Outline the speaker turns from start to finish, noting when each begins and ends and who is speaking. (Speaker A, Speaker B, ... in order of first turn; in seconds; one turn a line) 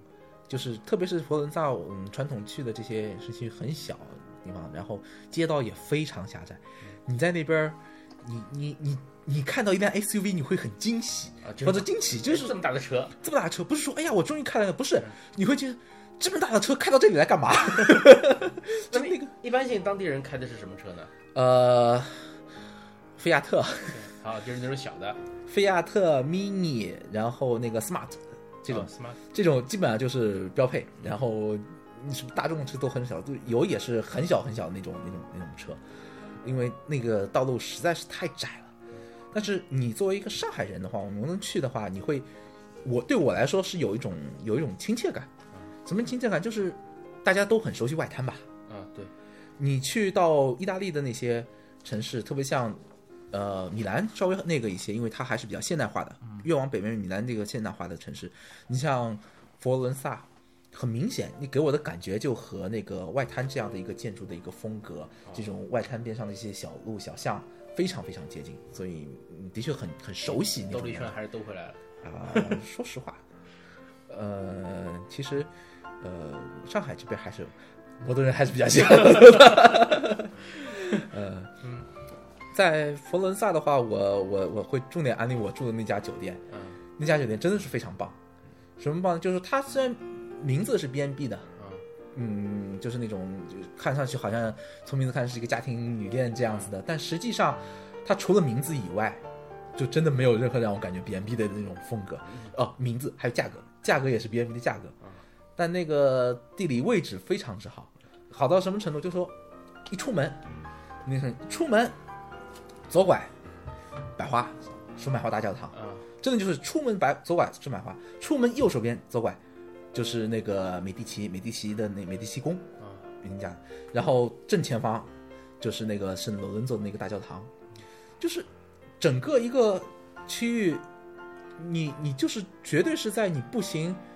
Speaker A: 0.5-12.6
Speaker B: 11.4-13.1
Speaker A: 13.2-19.3
Speaker B: 18.9-21.1
Speaker A: 21.3-22.4
Speaker A: 23.2-24.1
Speaker B: 23.9-25.2
Speaker A: 25.5-35.8
Speaker B: 28.7-29.2
Speaker A: 36.4-38.7
Speaker A: 39.3-42.3
Speaker A: 42.8-45.3
Speaker A: 45.9-48.4
Speaker B: 48.7-49.1
Speaker A: 49.6-52.8
Speaker A: 53.3-71.2
Speaker B: 70.6-71.8
Speaker A: 72.0-73.2
Speaker A: 74.1-75.5
Speaker A: 76.0-81.5
Speaker A: 82.5-86.4
Speaker B: 86.5-86.8
Speaker A: 87.0-88.2
Speaker A: 88.8-91.5
Speaker B: 91.6-91.8
Speaker A: 92.1-99.2
Speaker A: 99.8-104.9
Speaker A: 105.6-109.4
Speaker A: 109.9-110.4
Speaker A: 111.0-112.0
Speaker A: 112.9-113.3
Speaker A: 114.2-119.4
Speaker B: 115.7-116.1
Speaker A: 119.9-122.7
Speaker B: 122.8-123.0
Speaker A: 123.2-127.5
Speaker A: 128.2-128.5
Speaker A: 129.0-130.8
Speaker A: 131.6-134.0